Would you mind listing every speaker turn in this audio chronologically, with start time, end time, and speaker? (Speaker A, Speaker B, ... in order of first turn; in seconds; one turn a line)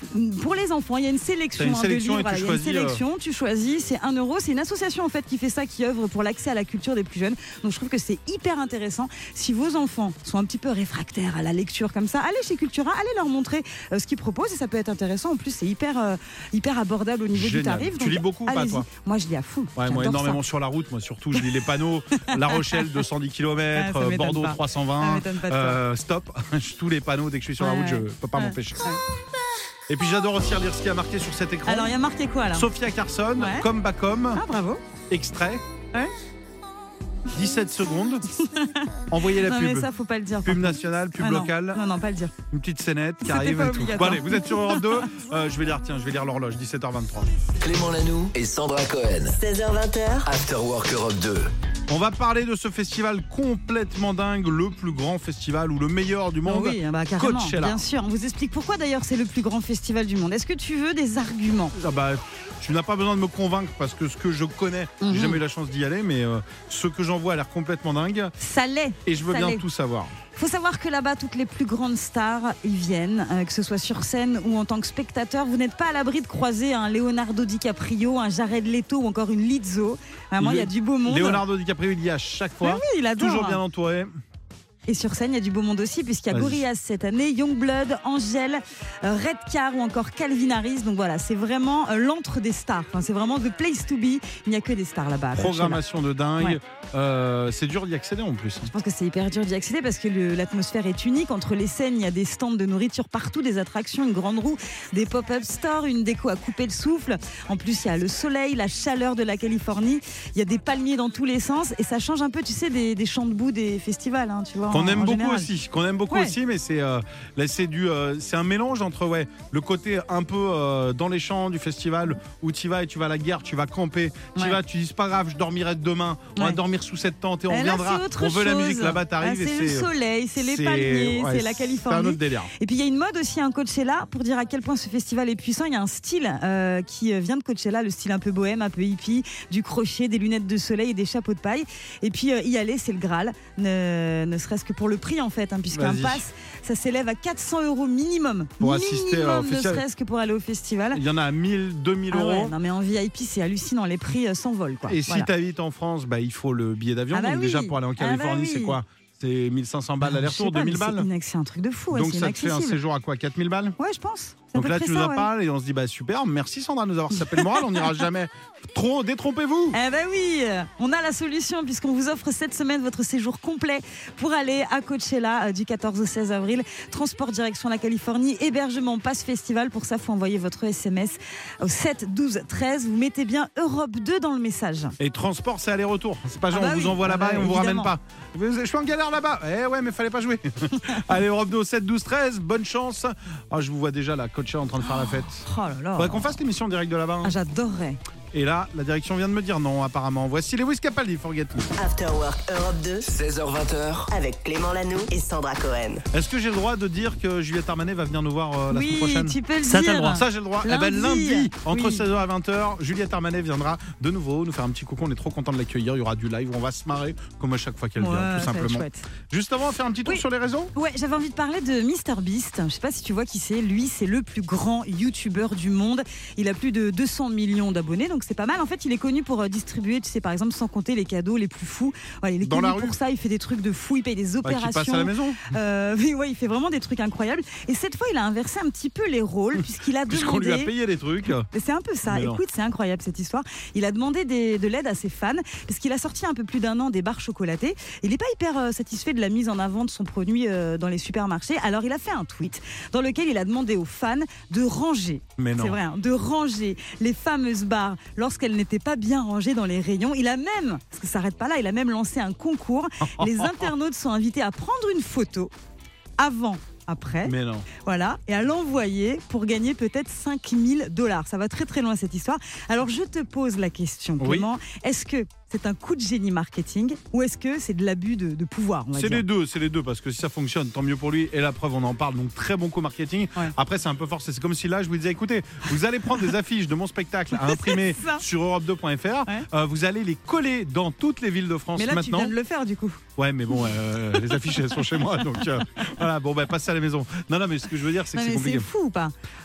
Speaker A: 0.1-20.4
Speaker B: 1.6-3.0
Speaker B: 17.3-18.9
Speaker B: 19.8-28.9
Speaker A: 22.3-23.0
Speaker A: 23.7-25.8
Speaker A: 27.6-29.0
Speaker B: 29.9-31.9
Speaker A: 31.6-32.7
Speaker B: 32.5-34.4
Speaker A: 33.4-33.7
Speaker A: 34.3-34.8
Speaker B: 35.1-35.6
Speaker B: 37.3-38.2
Speaker A: 38.4-42.3
Speaker B: 39.1-39.9
Speaker B: 40.4-41.8
Speaker B: 42.5-47.3
Speaker A: 43.2-45.1
Speaker C: 47.6-49.3
Speaker D: 49.3-50.3
Speaker C: 50.2-51.5
Speaker B: 51.9-57.8
Speaker A: 56.4-61.7
Speaker B: 61.8-68.3
Speaker A: 65.0-65.4
Speaker A: 68.4-69.6
Speaker B: 69.0-70.1
Speaker A: 70.3-81.4
Speaker B: 80.4-84.1
Speaker A: 82.6-83.6
Speaker A: 84.9-95.8
Speaker B: 86.3-86.6
Speaker B: 95.3-98.7
Speaker A: 98.7-115.5
Speaker B: 114.7-132.5
Speaker A: 116.1-116.3
Speaker A: 127.5-151.0
Speaker B: 145.7-146.2
Speaker B: 148.6-149.8
Speaker B: 150.9-152.5
Speaker A: 152.1-155.3
Speaker B: 154.9-161.1
Speaker A: 157.1-158.8
Speaker A: 160.0-162.8
Speaker B: 161.9-163.7
Speaker A: 163.8-165.3
Speaker B: 164.5-169.8
Speaker A: 167.3-167.9
Speaker A: 169.7-184.9
Speaker B: 185.0-195.4
Speaker A: 186.5-187.9
Speaker A: 194.8-196.3
Speaker B: 196.0-197.3
Speaker A: 197.2-198.0
Speaker B: 198.3-201.7
Speaker D: 201.8-203.1
Speaker C: 203.0-204.1
Speaker D: 204.1-206.0
Speaker B: 206.1-220.7
Speaker A: 208.7-212.0
Speaker A: 218.0-219.1
Speaker A: 220.7-240.7
Speaker B: 232.4-232.9
Speaker B: 234.4-235.4
Speaker B: 240.1-241.5
Speaker A: 241.5-265.5
Speaker B: 242.1-242.4
Speaker B: 255.4-255.8
Speaker B: 263.2-263.7
Speaker A: 266.2-279.2
Speaker B: 267.2-267.7
Speaker B: 274.2-274.5
Speaker B: 278.9-292.3
Speaker A: 287.4-288.2
Speaker A: 291.8-293.0
Speaker B: 293.2-298.7
Speaker A: 293.5-294.8
Speaker A: 295.4-295.9
Speaker A: 298.1-299.1